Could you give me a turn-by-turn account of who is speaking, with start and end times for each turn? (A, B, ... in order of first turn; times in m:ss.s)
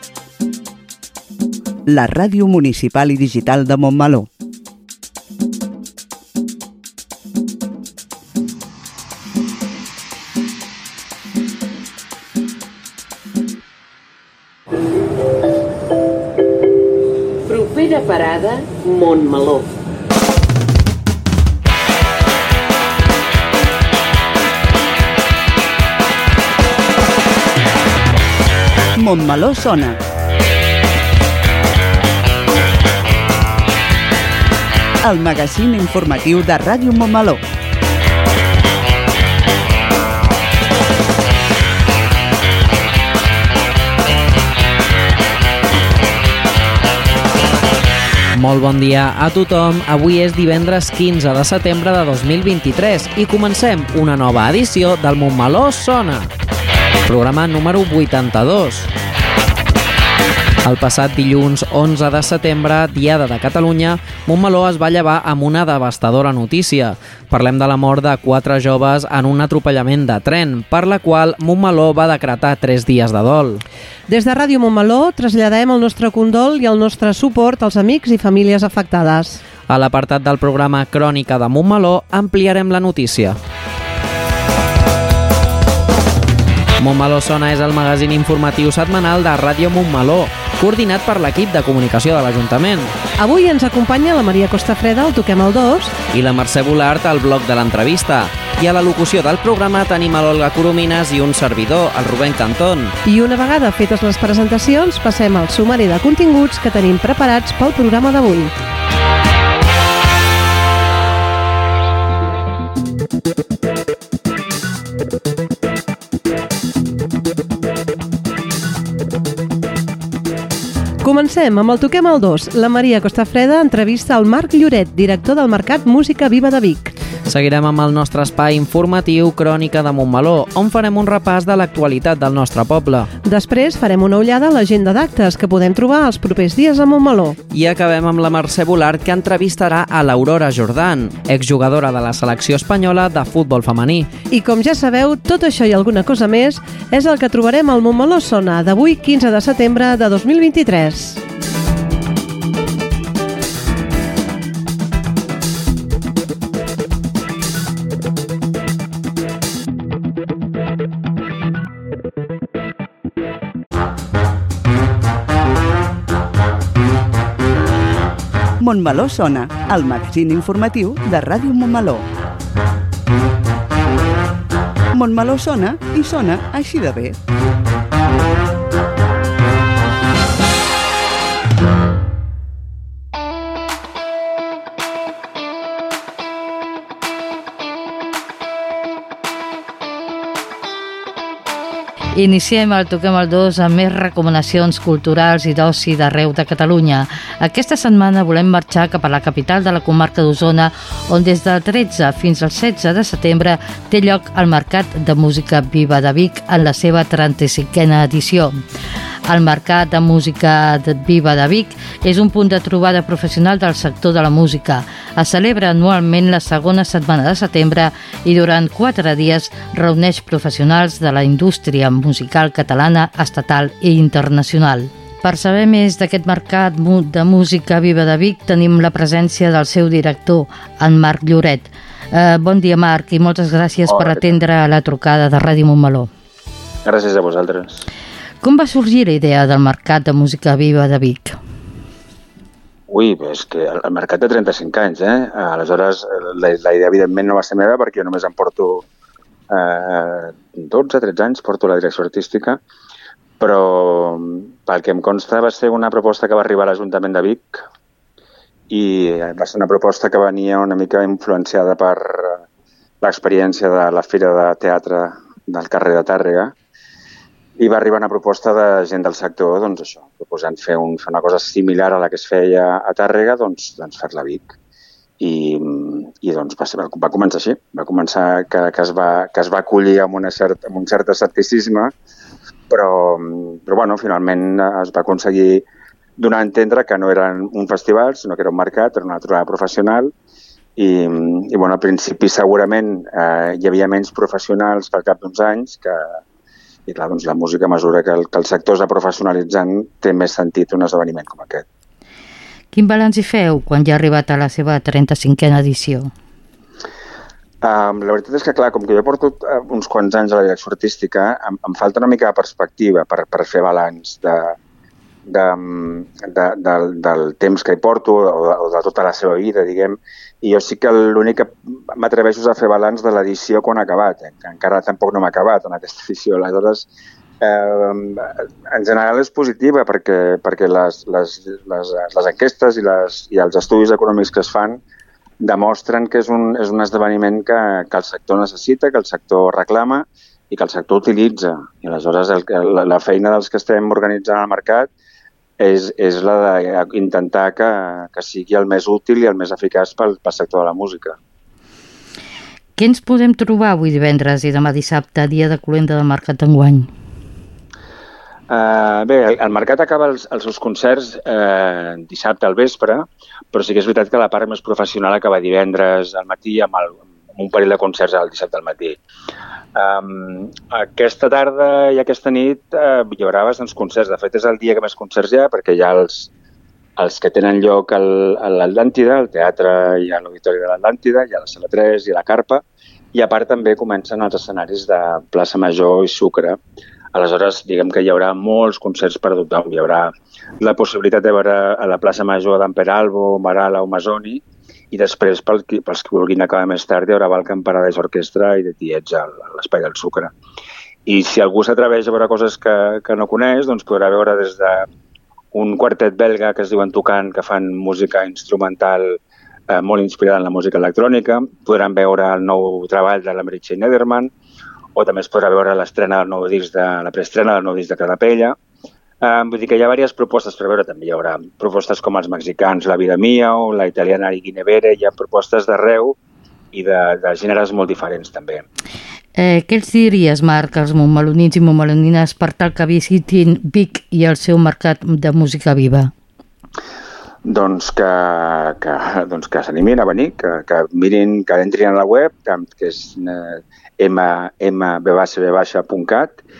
0:01.9-0:04.3 A
0:17.5-0:19.6 B
0:29.0-0:30.0 A
0:35.0-0:37.4 A
0:48.3-0:56.3 C
0:57.0-0:58.9 C
1:00.6-1:13.6 C
1:14.1-1:19.4 D
1:19.7-1:23.4 C
1:26.8-1:32.9 C
1:33.2-1:35.9 D
1:36.1-1:42.9 C
1:43.0-1:48.5 D
2:01.0-2:06.9 D
2:07.3-2:13.1 C
2:13.2-2:17.4 D
2:17.5-2:24.1 C
2:24.3-2:31.2 D
2:48.6-2:52.0 A
2:54.9-2:57.2 A
3:12.2-3:28.6 E
3:29.2-3:56.1 E
3:53.8-3:54.4 F
3:56.8-3:57.8 F
3:58.4-4:01.4 E
4:02.9-4:08.8 F
4:09.5-4:12.6 F
4:13.4-4:17.6 F
4:18.7-4:22.4 F
4:23.0-4:26.5 F
4:27.6-4:34.5 F
4:35.2-4:41.9 F
4:42.7-4:45.6 F
4:46.2-4:50.1 F
4:50.8-4:56.2 F
4:56.9-5:01.6 F
5:02.7-5:06.1 E
5:07.6-5:14.6 F
5:15.3-5:26.9 F
5:27.4-5:34.8 F
5:35.4-5:44.9 F
5:45.6-5:51.2 F
5:52.8-5:56.9 E
5:58.5-6:09.0 F
6:09.7-6:16.3 F
6:17.0-6:26.6 F
6:27.1-6:40.3 F
6:41.0-6:44.9 F
6:45.5-6:54.3 F
6:54.9-6:58.6 F
6:59.2-7:06.2 F
7:06.7-7:08.6 F
7:09.4-7:16.1 E
7:17.4-7:26.4 F